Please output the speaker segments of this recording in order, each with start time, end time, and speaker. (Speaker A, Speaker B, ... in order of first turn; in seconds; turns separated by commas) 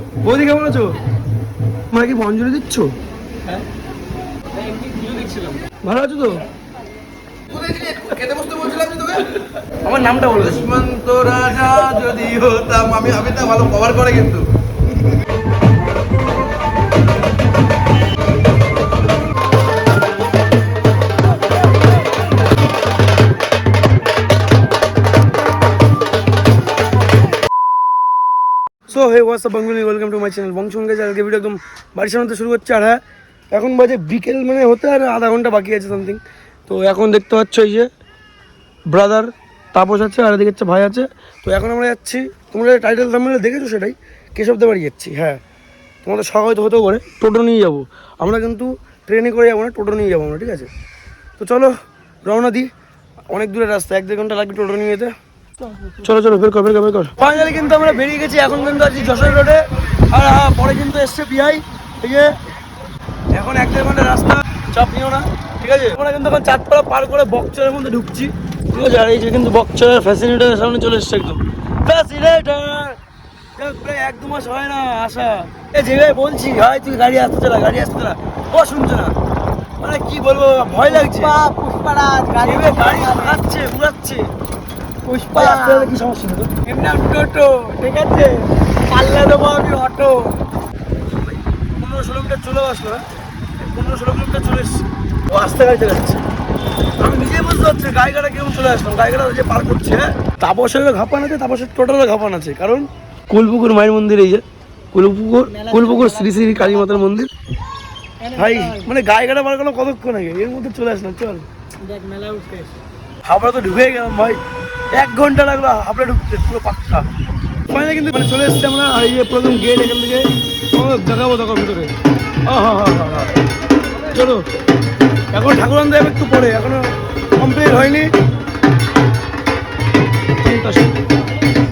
Speaker A: 0.2-1.0, Speaker A: 1.9-2.9, Speaker A: 5.8-6.4, Speaker B: 7.5-9.4, Speaker A: 9.8-10.6, Speaker B: 10.4-14.5, Speaker A: 28.9-33.0, Speaker A: 33.5-37.9, Speaker A: 38.9-45.4, Speaker A: 46.0-50.7, Speaker A: 51.4-51.7, Speaker A: 52.2-52.7, Speaker A: 53.3-55.1, Speaker A: 55.8-62.3, Speaker A: 63.3-73.0, Speaker A: 73.5-79.1, Speaker A: 79.8-81.4, Speaker C: 80.8-83.4, Speaker A: 82.4-84.3, Speaker C: 85.0-85.9, Speaker A: 85.3-86.6, Speaker C: 86.6-87.9, Speaker A: 87.9-88.3, Speaker A: 88.9-90.3, Speaker C: 88.9-89.7, Speaker A: 91.2-93.0, Speaker A: 93.6-96.2, Speaker A: 97.0-107.3, Speaker C: 105.5-107.0, Speaker C: 108.2-108.9, Speaker A: 108.3-111.4, Speaker C: 111.8-112.7, Speaker A: 113.2-114.4, Speaker A: 114.9-117.0, Speaker A: 117.7-121.9, Speaker A: 122.5-123.4, Speaker A: 124.0-124.4, Speaker A: 125.3-128.1, Speaker A: 130.4-131.0